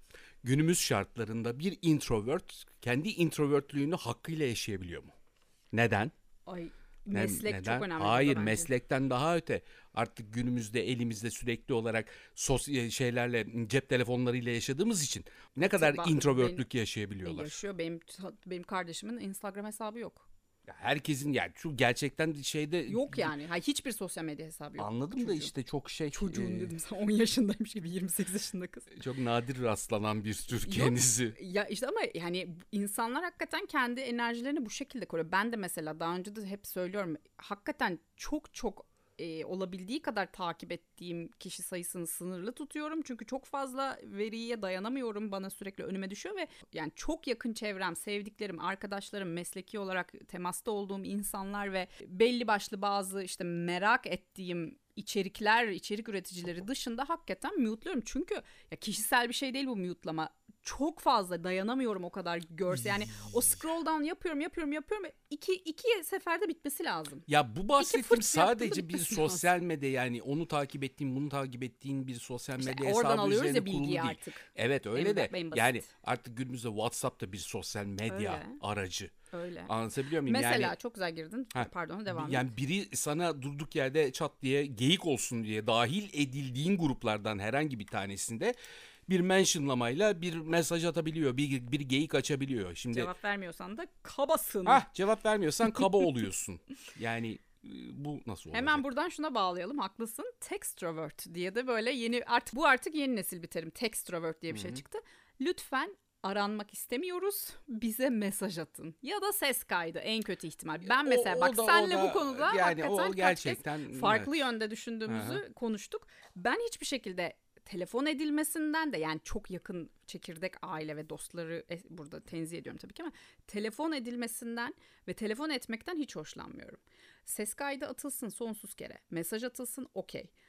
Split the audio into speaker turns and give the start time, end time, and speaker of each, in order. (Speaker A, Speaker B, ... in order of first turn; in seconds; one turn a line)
Speaker A: 0.4-5.1
Speaker A: 5.7-6.1
Speaker B: 6.5-8.7
Speaker A: 7.1-17.6
Speaker B: 15.6-16.6
Speaker B: 17.2-20.3
Speaker A: 20.7-23.3
Speaker B: 22.9-25.5
Speaker A: 24.8-26.7
Speaker B: 26.1-28.9
Speaker A: 28.9-31.4
Speaker B: 30.6-69.5
Speaker A: 67.3-79.1
Speaker B: 72.6-75.9
Speaker B: 78.1-78.6
Speaker B: 79.3-79.7
Speaker A: 79.7-80.8
Speaker B: 80.2-82.5
Speaker A: 81.5-88.5
Speaker A: 89.1-93.1
Speaker B: 92.9-94.8
Speaker A: 94.7-98.9
Speaker B: 95.6-96.0
Speaker B: 98.5-130.3
Speaker A: 104.5-104.8
Speaker A: 110.8-114.3
Speaker A: 115.1-115.4